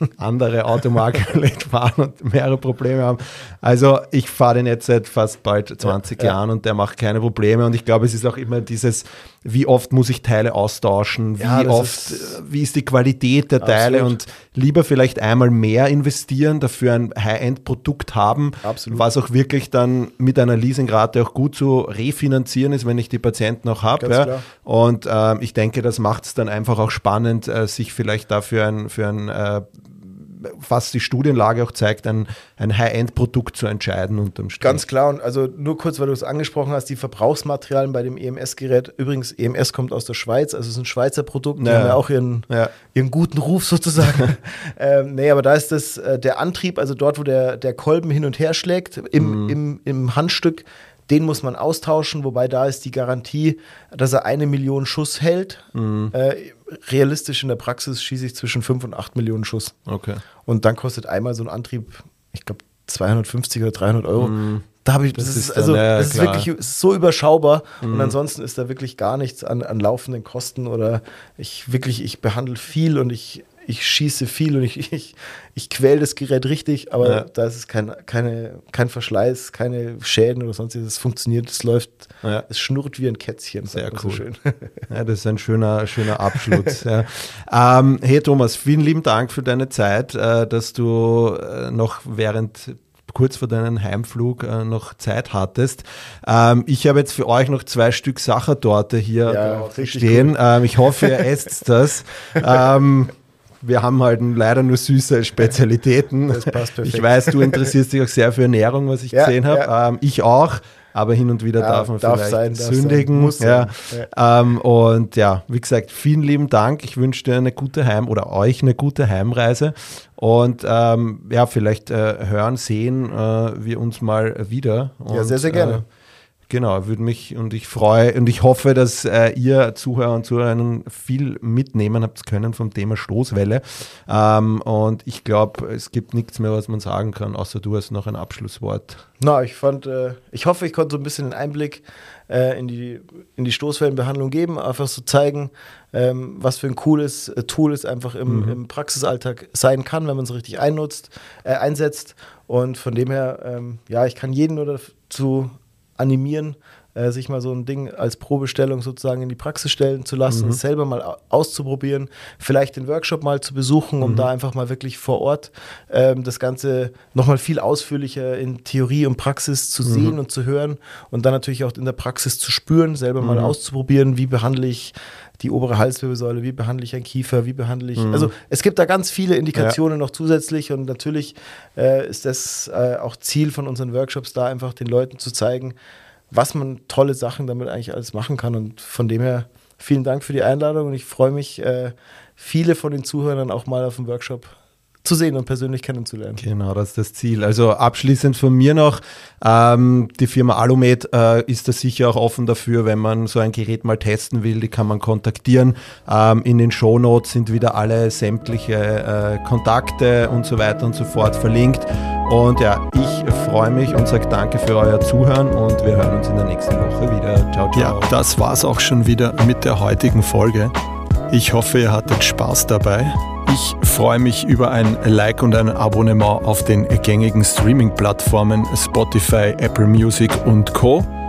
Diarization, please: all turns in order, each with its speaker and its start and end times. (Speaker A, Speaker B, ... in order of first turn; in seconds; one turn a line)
Speaker A: 0.2-34.8
Speaker B: 5.9-6.3
Speaker B: 11.4-12.4
Speaker B: 13.6-14.2
Speaker B: 18.6-19.1
Speaker B: 24.0-24.5
Speaker B: 34.6-59.8
Speaker A: 41.6-42.7
Speaker A: 49.2-49.5
Speaker A: 55.7-56.1
Speaker A: 59.9-60.2
Speaker B: 60.5-84.8
Speaker A: 64.2-64.6
Speaker A: 65.2-66.5
Speaker A: 67.8-68.2
Speaker A: 83.7-84.2
Speaker A: 84.9-125.8
Speaker B: 86.3-86.7
Speaker B: 99.3-101.2
Speaker B: 106.3-107.7
Speaker B: 109.1-109.7
Speaker B: 111.6-114.1
Speaker B: 125.1-125.8
Speaker A: 126.5-139.0
Speaker B: 139.2-185.8
Speaker A: 148.3-148.6
Speaker A: 160.3-160.6
Speaker A: 164.0-164.3
Speaker A: 169.8-170.2
Speaker A: 173.2-173.5
Speaker A: 178.0-178.3
Speaker B: 186.3-196.4
Speaker A: 196.4-218.2
Speaker C: 217.7-220.7
Speaker C: 221.3-224.2
Speaker A: 223.8-231.0
Speaker C: 226.7-228.0
Speaker C: 228.7-230.9